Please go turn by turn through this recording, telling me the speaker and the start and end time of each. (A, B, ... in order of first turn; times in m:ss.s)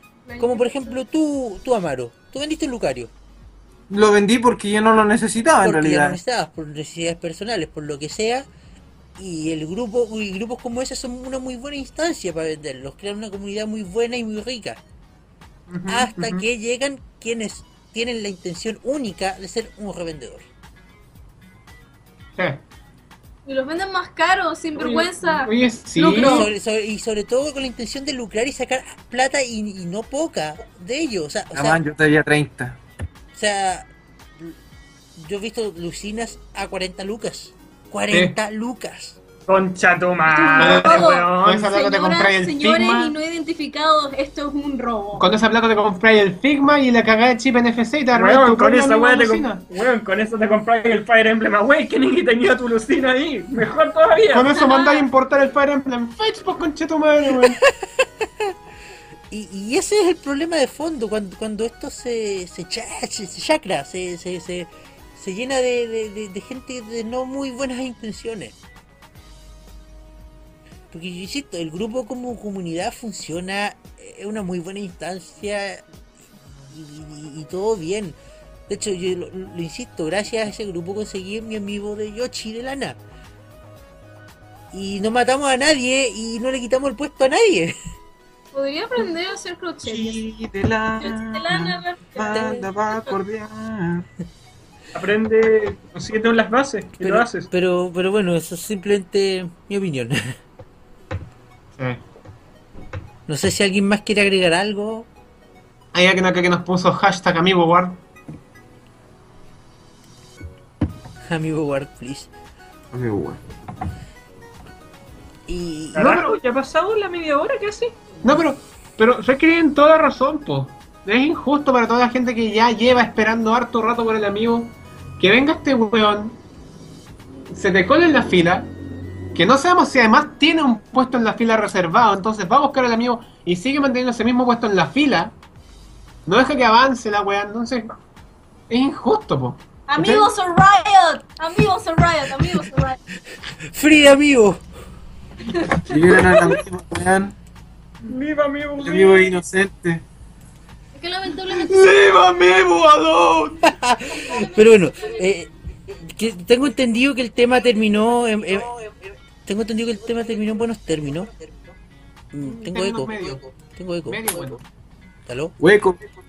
0:00.2-0:01.0 A
0:00.4-0:03.1 B
0:03.9-0:06.2 C
0:05.6-0:08.5 B
0:09.2-0:14.8 B
0:15.7-0:16.4 D
0:15.9-0:20.5 B
0:22.4-0:22.6 D
0:23.5-0:26.5 A
0:24.8-0:26.5 D
0:26.1-0:31.8 B
0:31.5-0:32.8 C
0:33.3-0:33.9 B
0:35.2-0:39.2 B
0:39.5-0:41.7 E
0:40.3-0:45.3 A
0:40.6-0:43.2 D
0:45.2-0:49.6 D
0:48.1-0:54.6 E
0:54.3-0:57.6 D
0:54.5-0:55.1 A
0:57.5-0:58.5 B
0:59.3-1:08.5 B
1:10.9-1:15.8 B
1:16.7-1:18.2 B
1:18.7-1:23.0 B
1:24.7-1:27.8 B
1:28.5-1:30.2 A
1:29.8-1:34.1 C
1:31.0-1:33.2 A
1:32.3-1:32.6 B
1:34.9-1:37.5 E
1:37.0-1:40.4 B
1:41.8-1:42.0 D
1:43.3-1:45.1 B
1:45.9-1:48.0 D
1:51.3-1:52.3 B
1:52.9-1:53.4 C
1:55.5-1:56.2 B
1:56.0-1:58.0 E
1:56.0-1:56.3 D
1:58.2-2:06.4 D
2:07.5-2:08.7 D
2:09.3-2:15.4 D
2:16.3-2:18.0 D
2:18.7-2:20.3 D
2:19.9-2:23.0 A
2:23.7-2:24.6 B
2:25.5-2:26.5 A
2:25.8-2:27.4 C
2:28.1-2:29.4 E
2:28.8-2:30.0 C
2:30.9-2:31.9 A
2:31.7-2:33.6 C
2:33.6-2:38.8 B
2:34.2-2:35.1 A
2:39.4-2:41.3 B
2:42.3-2:44.6 B
2:42.4-2:43.5 D
2:44.1-2:44.6 D
2:45.3-2:45.6 B
2:45.6-2:46.0 C